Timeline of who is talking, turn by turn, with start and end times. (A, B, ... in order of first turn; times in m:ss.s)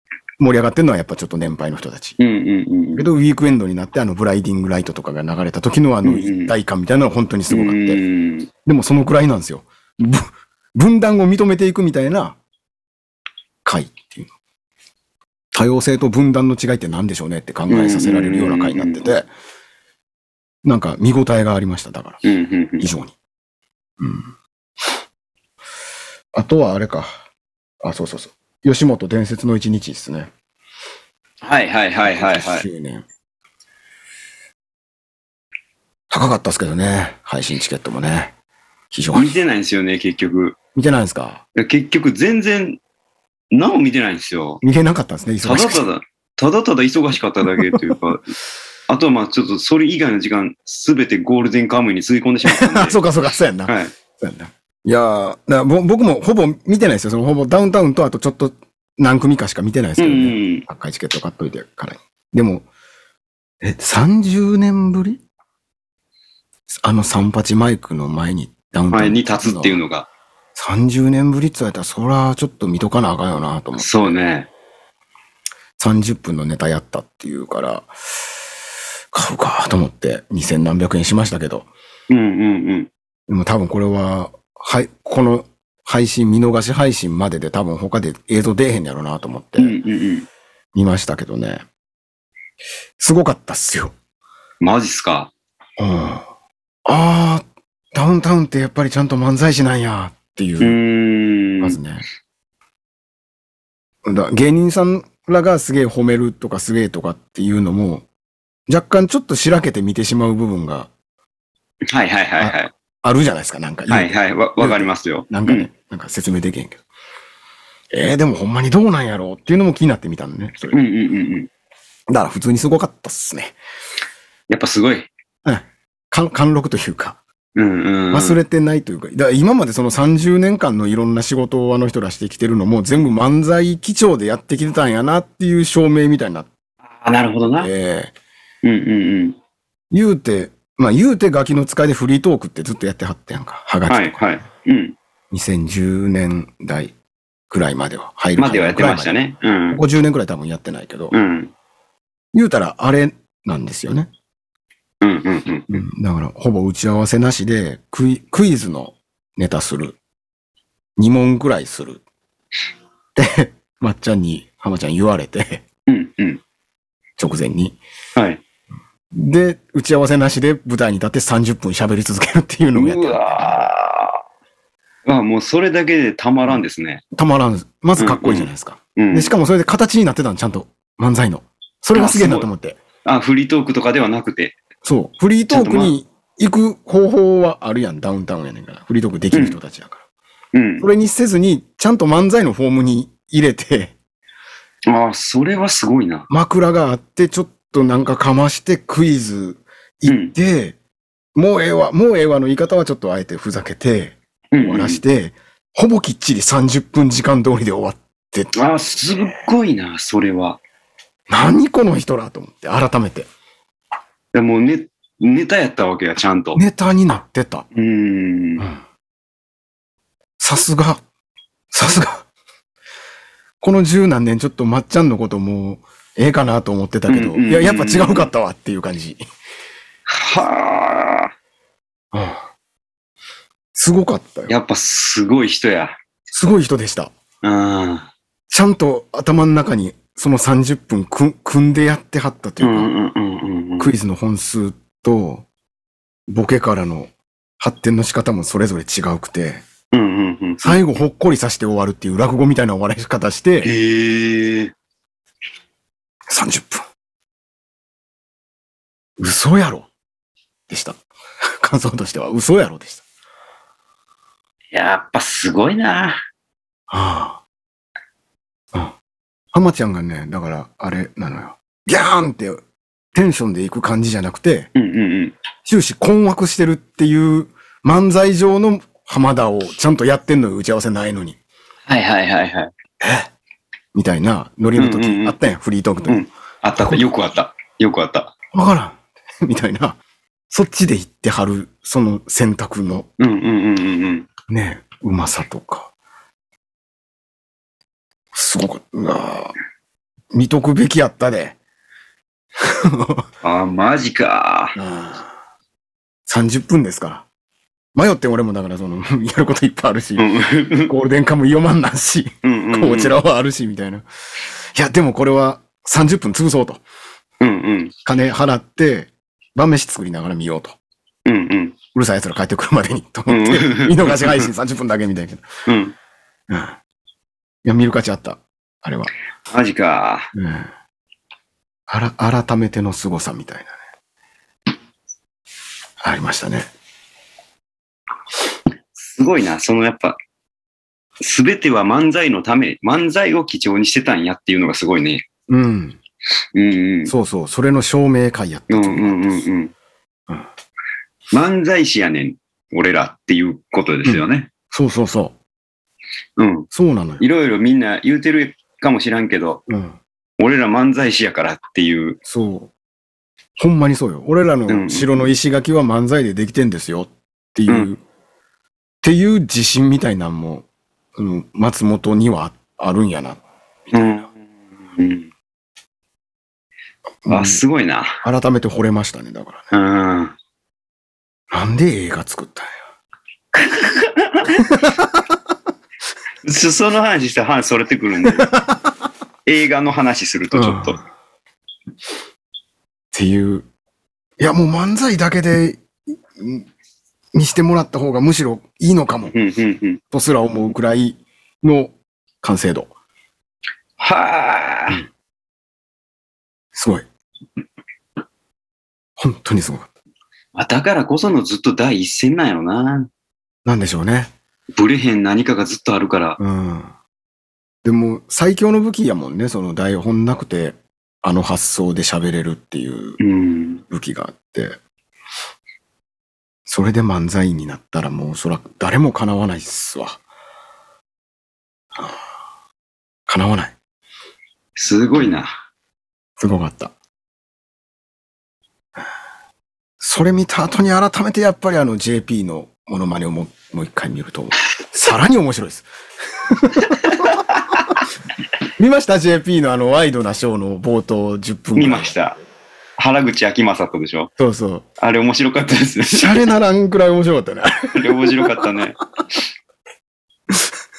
0:00.4-0:02.2 A
0:02.2-0:03.1 B
0:03.0-0:08.0 A
0:06.0-0:06.5 B
0:07.5-0:08.5 B
0:08.6-0:12.4 A
0:13.6-0:14.3 A
0:15.5-0:19.3 A
0:17.7-0:19.0 B
0:20.6-0:22.2 A
0:22.2-0:22.9 B
0:22.8-0:23.2 A
0:24.0-0:24.3 A
0:26.3-0:27.1 A
0:27.8-0:30.3 A
0:31.4-0:32.7 B
0:32.0-0:33.0 A
0:36.1-0:38.3 A
0:38.9-0:39.4 A
0:39.1-0:40.6 B
0:40.8-0:41.4 A
0:41.6-0:42.8 B
0:43.5-0:44.6 B
0:44.6-0:45.8 A
0:45.4-0:48.2 B
0:48.9-0:53.0 B
0:52.4-1:02.7 A
0:53.7-0:53.9 B
1:00.0-1:00.7 B
1:03.6-1:05.2 A
1:06.7-1:09.8 A
1:08.9-1:10.1 B
1:10.6-1:14.2 A
1:13.8-1:14.5 B
1:15.8-1:17.9 A
1:19.1-1:21.7 A
1:22.1-1:22.9 B
1:23.3-1:29.8 A
1:29.6-1:30.3 B
1:30.7-1:31.6 A
1:33.0-1:34.0 A
1:34.6-1:35.3 B
1:35.8-1:36.3 A
1:36.9-1:40.8 A
1:40.6-1:41.8 B
1:41.6-1:42.0 A
1:44.0-1:48.1 A
1:48.7-1:50.9 A
1:51.9-1:52.7 B
1:52.4-1:56.8 A
1:53.9-1:55.7 B
1:57.9-2:00.8 A
2:00.7-2:01.5 B
2:02.1-2:03.6 A
2:04.5-2:05.1 B
2:05.4-2:07.2 A
2:07.6-2:08.4 B
2:08.1-2:16.5 A
2:17.0-2:17.7 B
2:17.6-2:18.1 A
2:18.6-2:19.4 B
2:19.9-2:24.2 A
2:23.9-2:25.0 B
2:25.3-2:27.0 A
2:27.5-2:29.2 A
2:28.4-2:29.8 B
2:29.7-2:31.2 A
2:31.1-2:31.5 B
2:32.3-2:34.1 A
2:35.0-2:35.8 B
2:35.7-2:40.0 A
2:41.0-2:42.0 A
2:43.2-2:45.6 A
2:45.9-2:46.4 B
2:47.2-2:47.8 A
2:48.2-2:48.4 B
2:49.1-2:53.7 A
2:52.7-2:54.2 B
2:55.1-2:57.0 B
2:57.1-3:02.8 A
2:58.0-2:59.3 B
3:01.9-3:02.5 B
3:03.0-3:04.6 B
3:04.8-3:10.0 A
3:05.5-3:06.0 B
3:09.3-3:09.6 B
3:10.5-3:10.9 B
3:10.8-3:14.0 A
3:14.9-3:16.3 B
3:16.3-3:20.8 A
3:20.0-3:20.3 B
3:21.4-3:28.5 A
3:24.5-3:25.0 B
3:28.5-3:30.6 B
3:29.1-3:29.4 A
3:31.3-3:33.3 A
3:34.3-3:36.6 B
3:36.6-3:37.7 A
3:37.7-3:38.7 B
3:40.4-3:41.0 A
3:41.7-3:42.3 A
3:43.6-3:49.2 A
3:47.1-3:48.3 B
3:50.1-3:51.3 B
3:52.1-3:52.4 A
3:53.7-3:54.5 A
3:54.5-3:56.0 B
3:56.3-3:57.1 A
3:57.4-3:58.1 B
3:58.5-4:02.9 A
4:02.6-4:03.9 B
4:03.8-4:05.5 A
4:06.3-4:09.6 A
4:09.9-4:10.8 B
4:10.6-4:13.7 A
4:13.6-4:14.7 B
4:16.3-4:16.9 A
4:19.2-4:19.9 A
4:20.7-4:21.0 A
4:21.6-4:23.0 A
4:24.7-4:26.2 B
4:26.9-4:27.4 A
4:29.5-4:32.6 A
4:33.1-4:34.7 A
4:34.8-4:35.4 B
4:35.6-4:41.4 A
4:41.9-4:42.7 B
4:43.0-4:43.3 A
4:43.9-4:46.2 A
4:44.8-4:45.4 B
4:46.1-4:48.3 B
4:46.8-4:47.1 A
4:48.5-4:50.0 A
4:50.5-4:53.1 A
4:53.2-4:54.3 B
4:54.5-4:55.9 A
4:58.3-4:59.5 A
5:00.3-5:01.6 A
5:02.6-5:03.3 A
5:03.4-5:04.8 B
5:04.8-5:05.3 A
5:06.3-5:07.3 A
5:08.0-5:14.0 A
5:10.2-5:10.9 B
5:12.4-5:13.2 B
5:14.7-5:16.8 A
5:17.4-5:17.9 B
5:18.0-5:20.8 A
5:21.3-5:21.8 B
5:21.9-5:25.5 A
5:23.3-5:24.5 B
5:25.7-5:26.0 B
5:26.5-5:26.8 A
5:27.6-5:29.1 A
5:29.5-5:30.3 B
5:30.3-5:30.7 A
5:31.9-5:33.8 A
5:36.0-5:36.7 A
5:39.0-5:40.2 B
5:41.2-5:45.2 B
5:45.5-5:46.0 A
5:46.6-5:47.1 B
5:47.1-5:49.4 A
5:48.7-5:49.7 B
5:51.3-5:54.5 B
5:54.0-5:55.4 A
5:56.4-5:56.7 B
5:56.7-5:57.2 A
5:57.2-5:59.6 B
5:59.7-6:00.0 A
6:00.4-6:02.2 B
6:02.3-6:02.7 A
6:03.6-6:08.0 A
6:04.7-6:05.3 B
6:09.0-6:14.1 A
6:13.9-6:14.4 B
6:15.0-6:15.3 B
6:17.2-6:17.6 A
6:17.3-6:18.2 B
6:18.2-6:19.6 A
6:19.7-6:20.4 B
6:21.5-6:22.8 A
6:23.5-6:24.7 B
6:24.6-6:25.1 A
6:26.4-6:28.5 B
6:28.4-6:28.7 A
6:29.5-6:31.0 B
6:30.5-6:31.0 A
6:33.1-6:33.7 A
6:34.4-6:35.8 A
6:36.4-6:36.7 A
6:37.3-6:39.4 A
6:39.3-6:40.0 B
6:40.1-6:42.9 A
6:44.0-6:45.0 B
6:46.7-6:47.1 A
6:49.2-6:49.9 A
6:50.6-6:53.1 B
6:53.6-6:54.3 A
6:54.7-6:56.4 B
6:56.4-6:56.9 A
6:57.8-7:03.2 A
7:03.2-7:03.8 B
7:03.9-7:04.8 A
7:06.7-7:10.2 A
7:13.3-7:13.8 A
7:14.8-7:15.6 B
7:16.4-7:16.9 A
7:20.0-7:25.9 A
7:26.4-7:27.4 A
7:26.8-7:28.0 B
7:28.8-7:32.2 A
7:31.8-7:32.4 B
7:33.0-7:34.3 B
7:34.4-7:34.9 A
7:35.0-7:36.5 B
7:36.1-7:38.7 A
7:37.9-7:39.0 B